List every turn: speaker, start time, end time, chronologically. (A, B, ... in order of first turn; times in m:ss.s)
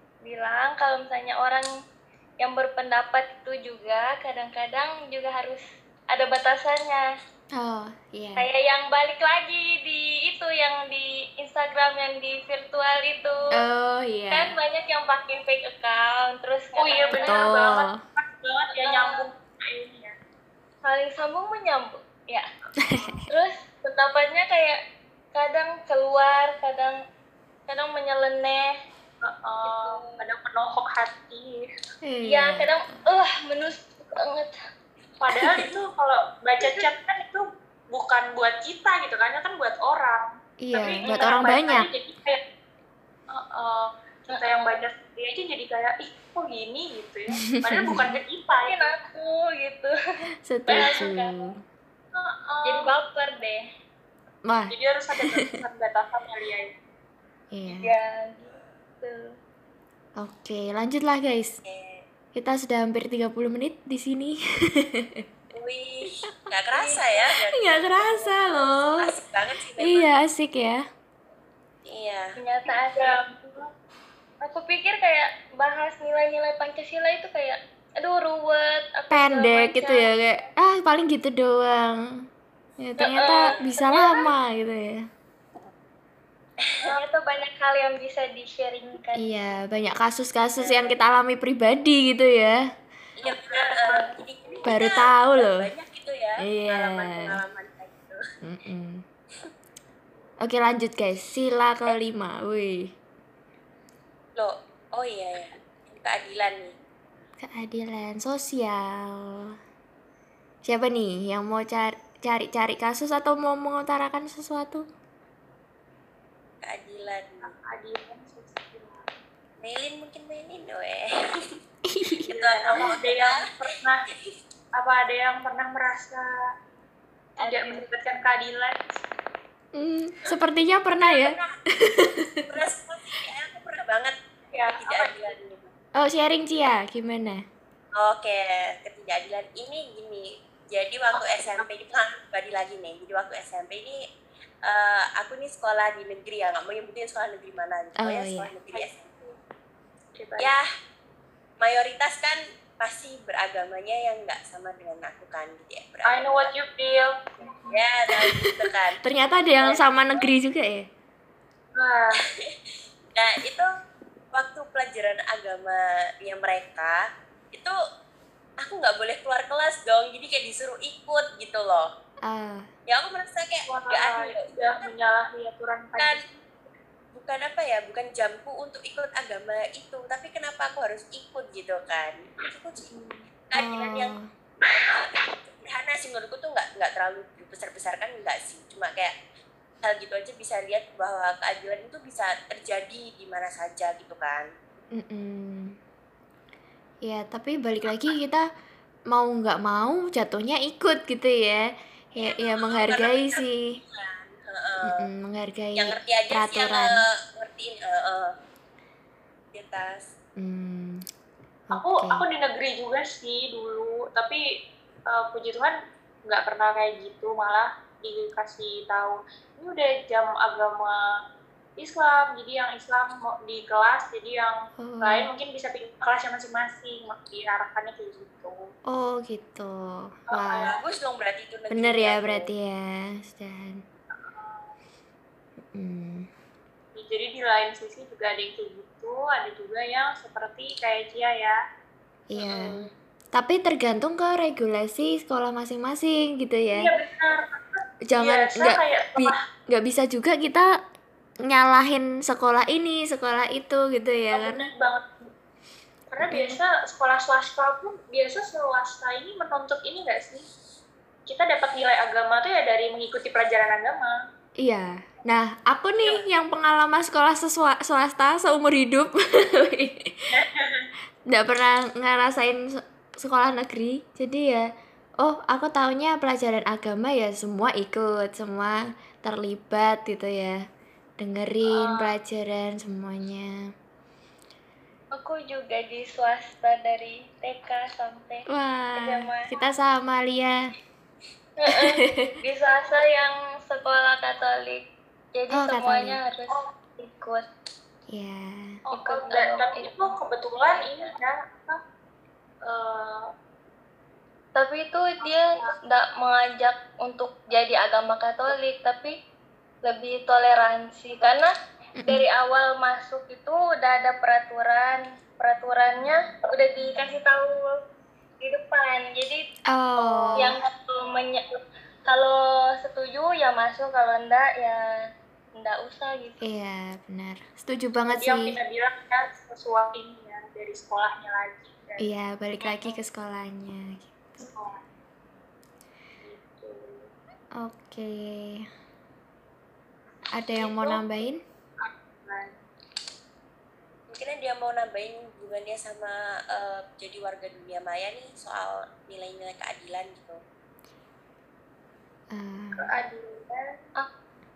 0:00.2-0:01.7 A
0:02.4-0:07.1 A
0:07.5-0:08.5 B
0:08.4-0:13.6 A
0:13.6-0:14.5 B
0:14.3-0:17.6 A
0:16.8-0:20.2 C
0:17.1-0:17.9 B
0:18.8-0:19.2 A
0:20.8-0:22.5 A
0:22.8-0:23.2 B
0:23.3-0:24.8 A
0:25.3-0:27.0 A
0:27.7-0:28.8 A
0:29.2-0:31.7 C
0:29.7-0:30.2 A
0:32.0-0:32.7 B
0:32.2-0:34.6 A
0:35.2-0:42.4 C
0:40.6-0:41.9 B
0:41.0-0:41.5 A
0:43.3-0:48.9 C
0:44.3-0:44.8 A
0:47.5-0:48.2 B
0:48.5-0:49.9 A
0:50.4-0:51.5 B
0:50.7-0:51.4 A
0:50.7-0:51.0 C
0:52.1-0:52.9 C
0:52.6-0:53.6 A
0:54.5-0:54.7 B
0:54.7-0:56.8 C
0:57.5-0:58.0 B
0:57.7-0:59.4 A
1:00.2-1:01.6 B
1:01.6-1:02.0 D
1:02.4-1:05.3 B
1:05.5-1:10.1 D
1:06.8-1:07.2 A
1:07.6-1:09.0 B
1:09.8-1:10.8 B
1:11.8-1:12.4 D
1:12.4-1:13.2 A
1:12.7-1:13.6 C
1:14.4-1:20.1 A
1:19.1-1:22.2 B
1:22.8-1:25.0 B
1:23.0-1:24.3 A
1:26.6-1:26.9 D
1:26.8-1:29.3 A
1:29.2-1:32.6 B
1:30.6-1:31.0 D
1:33.2-1:38.2 D
1:33.2-1:34.1 C
1:34.7-1:35.7 B
1:36.4-1:37.4 B
1:38.4-1:39.0 B
1:40.4-1:42.9 B
1:44.4-1:46.7 D
1:47.4-1:49.5 B
1:50.6-1:54.8 B
1:56.6-1:57.5 D
1:57.4-1:59.1 C
1:59.6-2:01.6 D
2:01.9-2:02.4 B
2:02.2-2:03.6 D
2:02.5-2:04.0 C
2:04.8-2:06.3 C
2:07.4-2:09.1 C
2:07.4-2:07.9 A
2:09.8-2:12.5 B
2:11.0-2:11.5 D
2:12.5-2:14.2 D
2:14.5-2:15.3 C
2:14.7-2:15.7 D
2:16.0-2:17.4 B
2:18.0-2:24.0 D
2:21.1-2:21.7 C
2:24.6-2:29.1 D
2:28.0-2:28.5 B
2:28.7-2:29.4 C
2:30.2-2:30.6 C
2:30.4-2:30.7 D
2:31.6-2:36.5 D
2:36.1-2:37.8 C
2:37.7-2:39.0 D
2:38.2-2:40.9 B
2:39.6-2:40.3 C
2:41.8-2:42.2 C
2:42.3-2:43.7 D
2:44.3-2:47.0 D
2:48.6-2:51.9 D
2:52.3-2:52.6 B
2:52.9-2:54.9 D
2:53.7-2:56.5 C
2:57.1-3:02.9 D
3:02.9-3:03.3 C
3:03.5-3:04.2 D
3:03.6-3:04.2 B
3:04.9-3:09.1 D
3:09.8-3:14.5 D
3:15.0-3:15.8 B
3:17.0-3:18.4 B
3:19.1-3:23.7 B
3:22.2-3:25.0 D
3:24.8-3:27.0 B
3:25.8-3:28.3 D
3:29.5-3:30.1 D
3:30.4-3:31.0 B
3:31.7-3:32.2 B
3:31.7-3:34.4 C
3:35.1-3:41.2 C
3:41.8-3:48.7 C
3:44.8-3:45.3 B
3:48.9-3:50.7 B
3:50.3-3:50.8 C
3:50.6-3:52.5 D
3:51.7-3:53.8 B
3:54.1-3:54.7 C
3:55.7-3:56.3 B
3:57.0-4:01.6 C
4:02.3-4:06.9 B
4:02.4-4:02.9 D
4:06.7-4:09.4 C
4:08.1-4:10.7 B
4:11.5-4:14.6 B
4:14.3-4:15.3 C
4:16.1-4:20.5 C
4:16.2-4:16.6 B
4:21.3-4:24.2 C
4:24.6-4:30.1 B
4:30.3-4:30.9 C
4:31.3-4:34.6 B
4:35.2-4:40.6 B
4:41.2-4:43.6 B
4:41.7-4:42.1 C
4:45.1-4:49.6 A
4:48.5-4:50.6 B
4:51.6-4:57.4 A
4:51.7-4:52.3 B
4:55.5-4:56.2 B
4:58.1-4:58.8 B
4:58.9-5:01.8 C
4:58.9-5:00.1 A
5:00.6-5:01.1 A
5:02.6-5:03.3 C
5:04.6-5:09.2 A
5:05.2-5:05.8 C
5:09.8-5:11.5 A
5:12.0-5:12.2 B
5:12.1-5:17.8 A
5:18.4-5:19.5 A
5:19.7-5:20.6 B
5:20.0-5:25.0 A
5:20.3-5:20.6 C
5:25.6-5:26.4 A
5:26.4-5:28.5 B
5:28.1-5:32.1 C
5:32.0-5:34.5 B
5:34.4-5:34.8 C
5:36.2-5:37.1 C
5:37.6-5:38.7 B
5:40.3-5:41.4 B
5:40.6-5:41.3 C
5:41.8-5:42.6 C
5:44.1-5:50.4 D
5:52.3-5:52.9 B
5:52.8-5:53.8 C